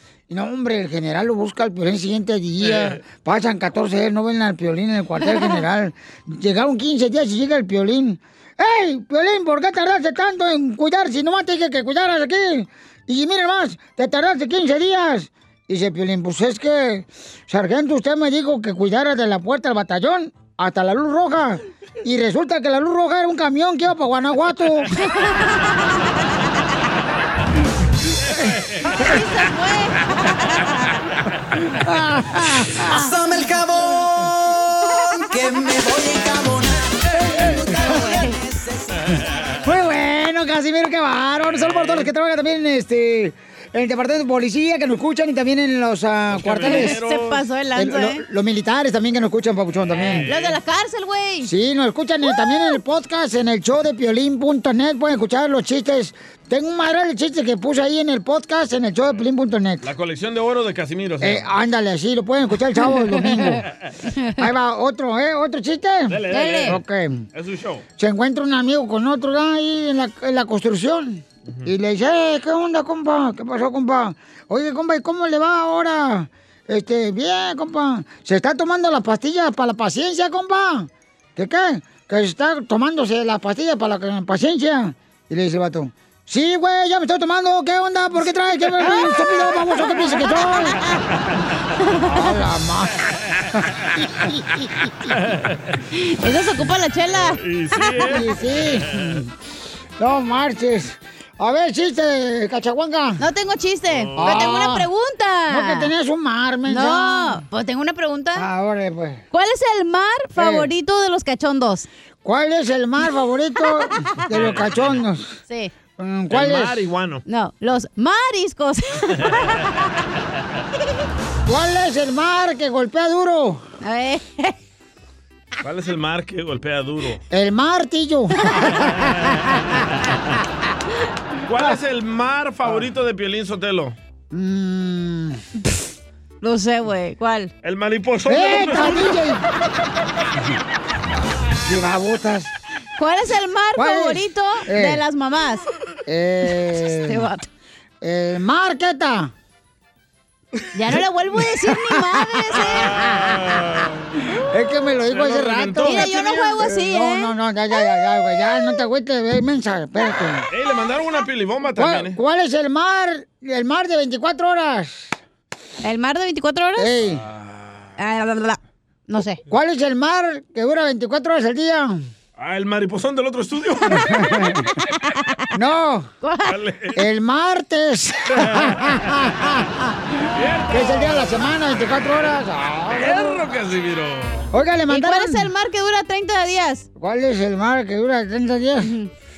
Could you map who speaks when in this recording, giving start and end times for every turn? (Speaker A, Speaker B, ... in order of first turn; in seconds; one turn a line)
Speaker A: 0.3-24.9
Speaker B: 2.6-3.0
Speaker C: 25.0-25.9
Speaker C: 28.9-30.9
Speaker A: 31.7-33.1
Speaker D: 32.9-34.3
Speaker D: 35.3-36.8
Speaker A: 37.1-38.1
Speaker D: 37.6-38.3
Speaker C: 37.9-38.4
Speaker B: 39.1-39.5
Speaker A: 39.6-47.0
Speaker B: 41.5-42.1
Speaker B: 46.3-47.5
Speaker C: 46.6-48.2
Speaker A: 47.7-50.3
Speaker B: 49.9-50.6
Speaker C: 50.1-51.5
Speaker A: 51.4-59.9
Speaker B: 59.8-61.5
Speaker A: 61.2-63.7
Speaker C: 63.1-63.5
Speaker A: 64.4-67.3
Speaker B: 66.1-66.8
Speaker C: 66.3-66.8
Speaker B: 67.3-67.8
Speaker A: 68.0-90.8
Speaker C: 88.8-90.9
Speaker C: 91.8-92.3
Speaker A: 92.1-93.0
Speaker A: 94.2-94.4
Speaker B: 95.1-95.7
Speaker C: 96.0-98.1
Speaker B: 97.4-99.2
Speaker A: 98.0-99.3
Speaker A: 100.0-103.2
Speaker C: 103.2-105.9
Speaker B: 103.9-104.7
Speaker A: 104.2-104.9
Speaker A: 105.5-107.4
Speaker C: 106.7-108.5
Speaker A: 108.3-109.2
Speaker C: 109.3-111.9
Speaker A: 110.4-110.7
Speaker A: 112.2-115.4
Speaker B: 114.3-115.0
Speaker A: 116.0-116.8
Speaker B: 116.3-117.2
Speaker C: 117.3-119.7
Speaker A: 121.5-123.7
Speaker C: 123.8-124.6
Speaker B: 125.6-127.2
Speaker A: 127.3-128.8
Speaker B: 128.7-129.2
Speaker B: 131.5-133.9
Speaker A: 134.3-135.4
Speaker C: 136.4-137.5
Speaker B: 137.6-139.2
Speaker A: 138.3-139.4
Speaker A: 141.6-142.5
Speaker C: 143.0-145.6
Speaker A: 143.8-145.0
Speaker A: 146.1-147.3
Speaker C: 146.8-147.5
Speaker A: 148.0-149.3
Speaker C: 150.8-153.3
Speaker A: 151.6-153.4
Speaker B: 152.7-154.3
Speaker A: 154.4-160.5
Speaker B: 155.1-156.7
Speaker C: 155.8-157.3
Speaker B: 160.5-162.2
Speaker A: 161.8-165.1
Speaker C: 165.8-167.0
Speaker A: 166.8-167.2
Speaker B: 167.1-167.9
Speaker C: 168.0-169.4
Speaker A: 169.5-172.1
Speaker B: 172.4-174.5
Speaker A: 174.0-174.7
Speaker A: 175.5-176.1
Speaker C: 176.2-176.6
Speaker B: 176.4-177.0
Speaker A: 176.9-180.2
Speaker B: 178.4-179.1
Speaker B: 180.3-181.5
Speaker A: 180.7-183.5
Speaker B: 182.9-184.5
Speaker A: 184.5-185.5
Speaker C: 184.9-186.9
Speaker A: 187.0-188.9
Speaker C: 188.8-189.1